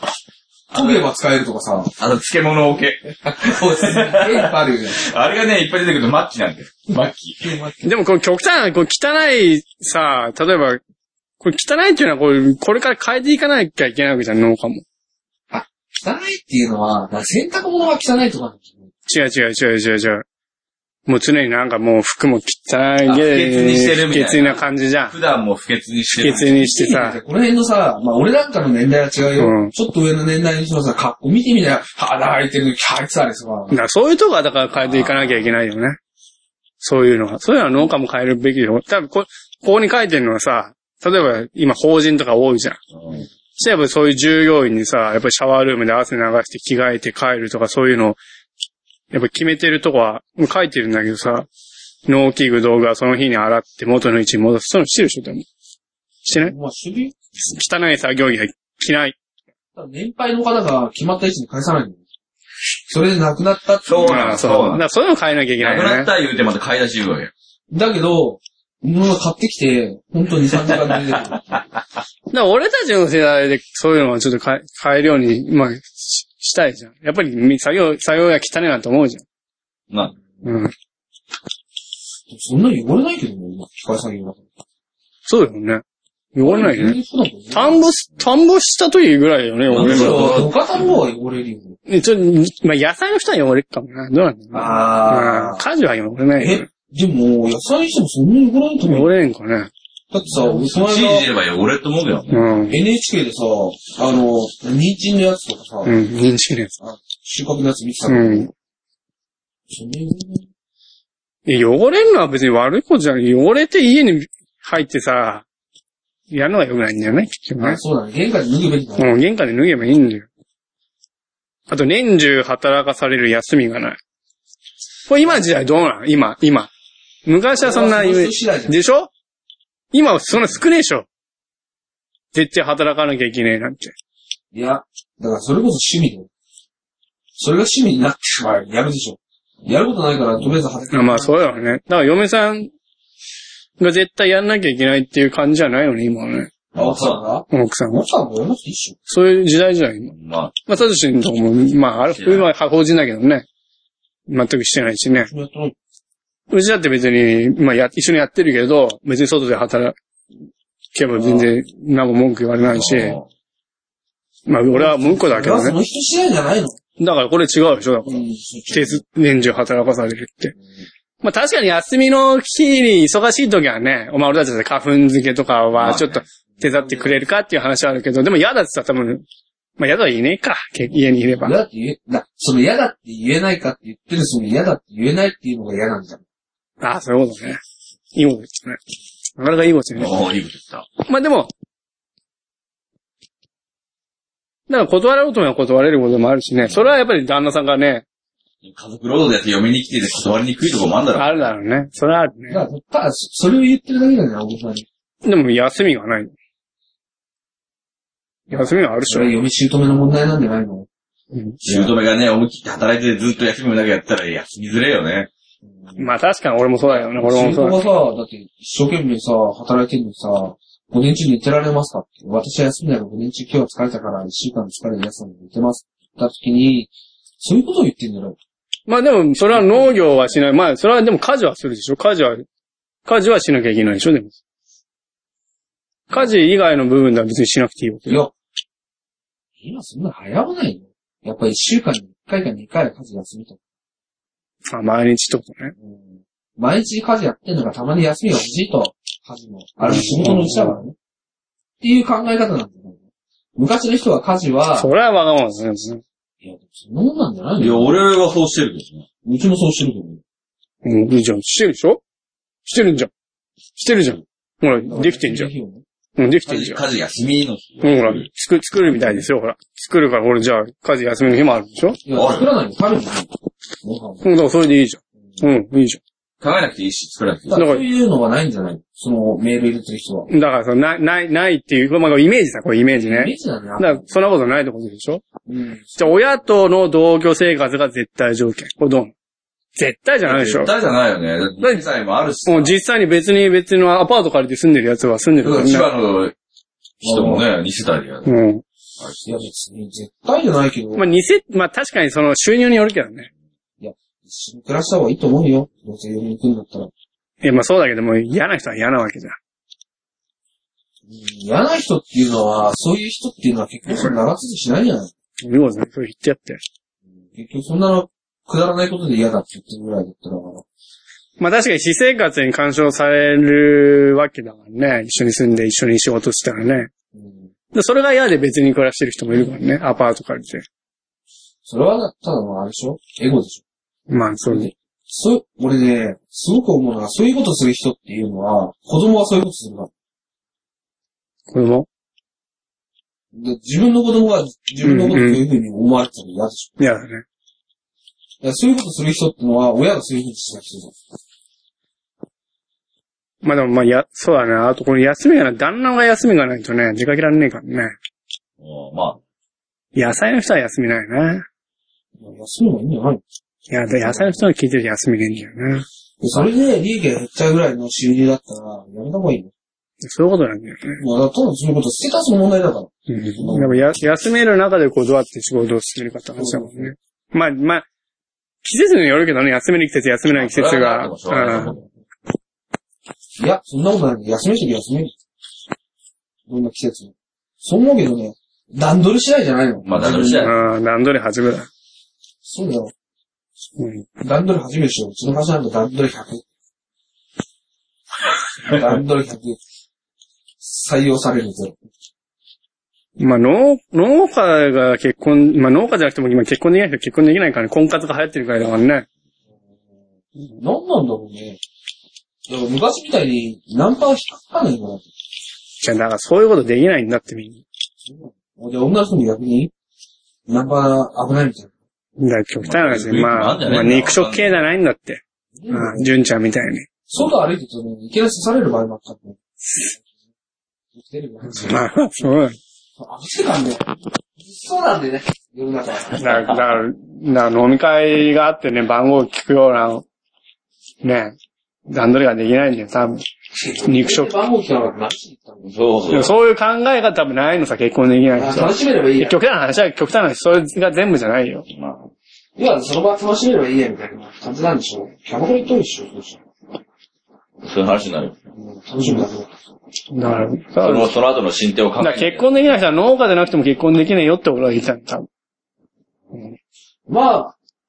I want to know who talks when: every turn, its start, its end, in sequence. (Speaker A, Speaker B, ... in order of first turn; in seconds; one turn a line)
Speaker A: 0.7-1.1
Speaker B: 0.7-1.9
Speaker A: 2.0-7.6
Speaker B: 3.2-5.0
Speaker B: 7.4-7.9
Speaker C: 7.8-10.8
Speaker C: 11.4-14.8
Speaker B: 15.5-18.9
Speaker C: 19.1-20.2
Speaker C: 21.1-25.1
Speaker A: 23.1-26.6
Speaker C: 26.2-27.2
Speaker B: 26.4-33.8
Speaker C: 29.4-29.7
Speaker C: 33.7-36.0
Speaker A: 34.8-35.5
Speaker C: 36.8-42.8
Speaker A: 42.9-43.2
Speaker C: 43.6-48.2
Speaker C: 49.1-51.5
Speaker C: 52.1-55.5
Speaker C: 56.2-56.5
Speaker B: 56.3-57.1
Speaker C: 57.4-59.1
Speaker B: 59.8-62.0
Speaker B: 62.9-64.2
Speaker A: 63.9-64.8
Speaker C: 64.0-66.1
Speaker A: 65.6-67.3
Speaker B: 67.7-71.4
Speaker A: 70.7-71.6
Speaker C: 72.3-79.2
Speaker C: 80.4-80.7
Speaker B: 82.3-84.4
Speaker C: 85.3-85.8
Speaker C: 86.3-87.0
Speaker B: 86.4-87.8
Speaker C: 87.5-90.4
Speaker A: 89.7-90.9
Speaker B: 89.7-91.8
Speaker C: 91.9-96.7
Speaker B: 94.5-95.6
Speaker B: 96.4-99.1
Speaker C: 98.9-99.7
Speaker B: 100.1-101.3
Speaker A: 100.3-102.5
Speaker C: 102.3-102.8
Speaker B: 102.7-106.0
Speaker C: 105.9-106.7
Speaker B: 106.8-108.5
Speaker C: 108.1-108.5
Speaker B: 109.7-110.5
Speaker C: 111.5-115.5
Speaker C: 116.3-117.8
Speaker B: 117.6-119.1
Speaker C: 119.0-120.3
Speaker C: 121.7-124.0
Speaker C: 125.1-126.7
Speaker C: 127.3-129.1
Speaker B: 127.6-128.8
Speaker C: 129.9-131.1
Speaker C: 132.3-133.9
Speaker B: 134.5-136.3
Speaker B: 137.4-141.6
Speaker C: 140.9-142.7
Speaker C: 143.8-146.5
Speaker A: 146.8-147.2
Speaker B: 146.8-149.0
Speaker C: 147.5-148.1
Speaker C: 149.1-150.1
Speaker A: 150.1-150.6
Speaker C: 150.7-153.4
Speaker A: 152.1-152.5
Speaker C: 154.3-155.3
Speaker B: 155.1-155.8
Speaker C: 156.5-159.9
Speaker C: 160.9-163.2
Speaker B: 161.1-161.5
Speaker A: 162.6-163.3
Speaker C: 164.5-165.8
Speaker B: 164.7-166.8
Speaker C: 167.0-170.6
Speaker B: 168.1-169.0
Speaker C: 171.2-179.2
Speaker A: 175.8-176.2
Speaker B: 176.6-177.3
Speaker C: 179.8-181.6
Speaker B: 181.4-186.2
Speaker C: 186.8-187.6
Speaker C: 188.1-188.8
Speaker C: 189.4-190.2
Speaker A: 189.9-190.9
Speaker C: 191.1-191.5
Speaker C: 194.7-198.1
Speaker A: 196.6-196.9
Speaker A: 198.6-201.4
Speaker C: 201.2-202.6
Speaker B: 202.5-204.9
Speaker C: 205.2-206.3
Speaker C: 208.5-209.3
Speaker B: 208.5-210.9
Speaker B: 211.6-211.9
Speaker A: 211.6-215.3
Speaker B: 215.7-216.1
Speaker C: 216.0-217.8
Speaker B: 216.9-228.4
Speaker C: 228.9-232.4
Speaker B: 229.5-230.4
Speaker C: 233.1-234.3
Speaker C: 236.1-238.3
Speaker B: 239.6-243.6
Speaker C: 244.7-245.8
Speaker B: 245.8-250.9
Speaker C: 249.8-250.8
Speaker B: 251.8-253.0
Speaker B: 253.6-254.9
Speaker C: 254.8-256.0
Speaker B: 256.4-258.0
Speaker A: 257.6-259.1
Speaker B: 259.2-260.2
Speaker C: 260.8-262.0
Speaker C: 262.6-263.1
Speaker C: 263.8-265.5
Speaker B: 264.8-265.8
Speaker C: 266.2-266.8
Speaker A: 266.4-268.3
Speaker C: 267.8-272.0
Speaker A: 268.9-269.3
Speaker B: 272.1-273.3
Speaker A: 272.1-272.5
Speaker B: 273.8-274.2
Speaker C: 274.2-276.0
Speaker A: 276.4-277.6
Speaker B: 277.5-280.3
Speaker C: 277.6-277.9
Speaker C: 280.3-285.2
Speaker B: 282.9-284.1
Speaker B: 285.4-286.3
Speaker C: 286.0-289.1
Speaker C: 289.8-290.7
Speaker A: 290.2-292.8
Speaker C: 292.4-295.9
Speaker A: 295.4-296.4
Speaker B: 297.0-297.4
Speaker A: 297.0-298.3
Speaker C: 298.3-298.6
Speaker B: 299.2-301.1
Speaker C: 300.9-303.3
Speaker B: 303.8-306.9
Speaker C: 307.4-309.4
Speaker B: 311.1-315.1
Speaker C: 313.9-314.2
Speaker C: 315.4-316.6
Speaker B: 317.3-320.6
Speaker C: 321.4-326.9
Speaker B: 327.1-327.5
Speaker C: 327.7-330.6
Speaker B: 331.6-333.6
Speaker C: 334.1-334.7
Speaker B: 334.4-339.9
Speaker C: 341.5-341.9
Speaker B: 343.3-346.8
Speaker C: 344.8-345.4
Speaker C: 346.8-347.2
Speaker B: 348.4-350.9
Speaker C: 353.4-357.9
Speaker A: 358.6-359.2
Speaker C: 359.9-361.4
Speaker B: 362.2-363.2
Speaker C: 363.7-365.9
Speaker B: 364.0-364.4
Speaker B: 366.2-369.5
Speaker C: 370.0-371.0
Speaker B: 371.0-373.8
Speaker C: 373.1-377.9
Speaker B: 376.4-376.9
Speaker C: 378.6-381.8
Speaker A: 380.3-381.9
Speaker B: 383.4-385.1
Speaker B: 386.5-390.5
Speaker A: 389.9-390.5
Speaker C: 390.4-391.7
Speaker B: 392.4-392.9
Speaker C: 393.8-394.1
Speaker B: 394.2-396.4
Speaker B: 398.6-399.6
Speaker B: 400.6-401.8
Speaker C: 403.2-409.1
Speaker B: 410.6-411.6
Speaker B: 412.5-415.1
Speaker C: 415.8-417.6
Speaker B: 418.0-419.7
Speaker B: 420.5-421.7
Speaker C: 422.2-426.9
Speaker A: 422.6-424.6
Speaker B: 425.6-426.1
Speaker B: 427.1-430.0
Speaker B: 430.9-432.3
Speaker C: 431.6-432.6
Speaker B: 433.0-436.2
Speaker A: 436.1-436.7
Speaker C: 436.1-440.1
Speaker C: 441.0-441.4
Speaker C: 441.9-443.2
Speaker B: 443.5-445.7
Speaker C: 443.9-444.4
Speaker A: 445.6-446.3
Speaker C: 446.1-451.7
Speaker B: 448.4-449.4
Speaker A: 451.7-452.1
Speaker B: 452.6-456.4
Speaker A: 457.6-458.4
Speaker B: 458.6-459.6
Speaker C: 460.1-461.1
Speaker A: 460.8-462.7
Speaker C: 462.0-465.3
Speaker B: 467.1-467.6